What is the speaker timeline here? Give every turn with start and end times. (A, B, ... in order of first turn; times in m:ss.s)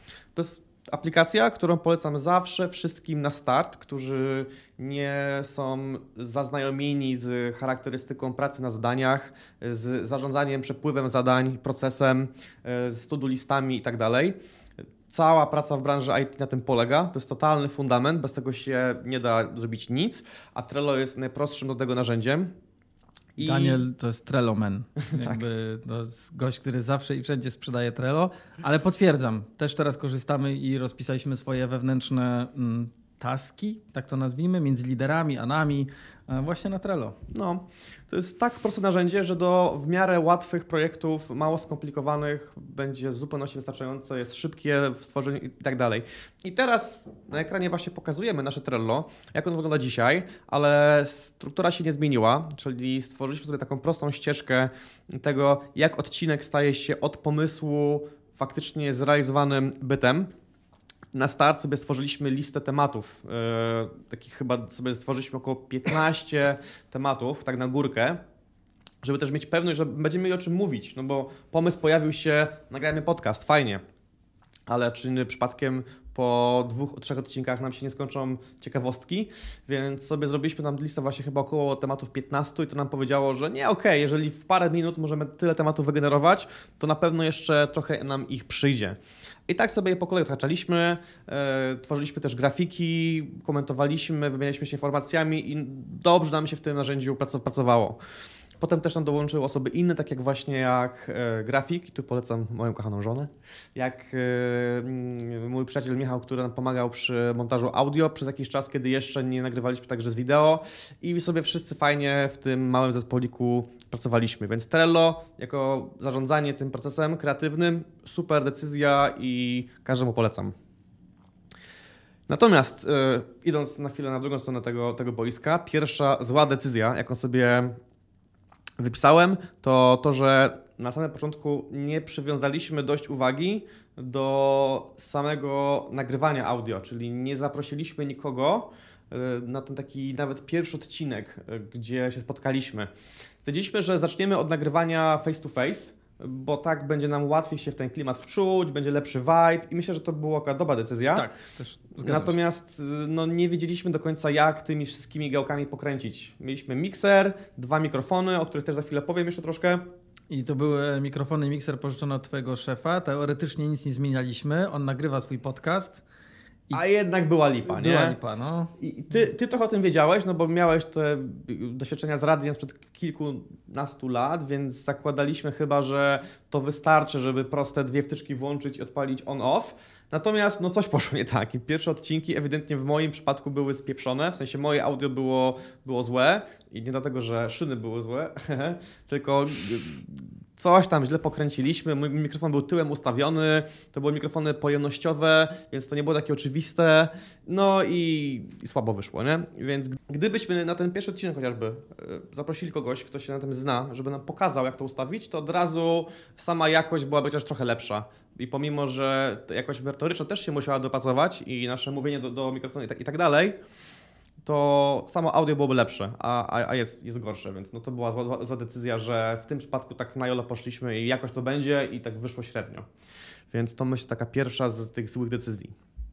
0:00.4-0:14.4 A
0:15.1-0:22.5 A
0:23.4-0:23.8 A
0:23.4-0:37.2 B
0:25.1-0:25.4 A
0:37.3-1:00.3 A
1:01.1-1:08.2 A
1:09.0-1:13.8 A
1:14.7-1:38.0 A
1:38.6-2:00.6 A
2:02.3-2:07.8 A
2:08.8-2:22.9 A
2:23.4-2:31.3 A
2:31.1-2:32.4 B
2:32.0-2:39.8 A
2:40.3-2:46.0 B
2:46.7-2:48.2 A
2:47.7-2:48.7 B
2:48.8-3:33.6 A
3:34.4-3:42.9 A
3:43.5-3:45.8 A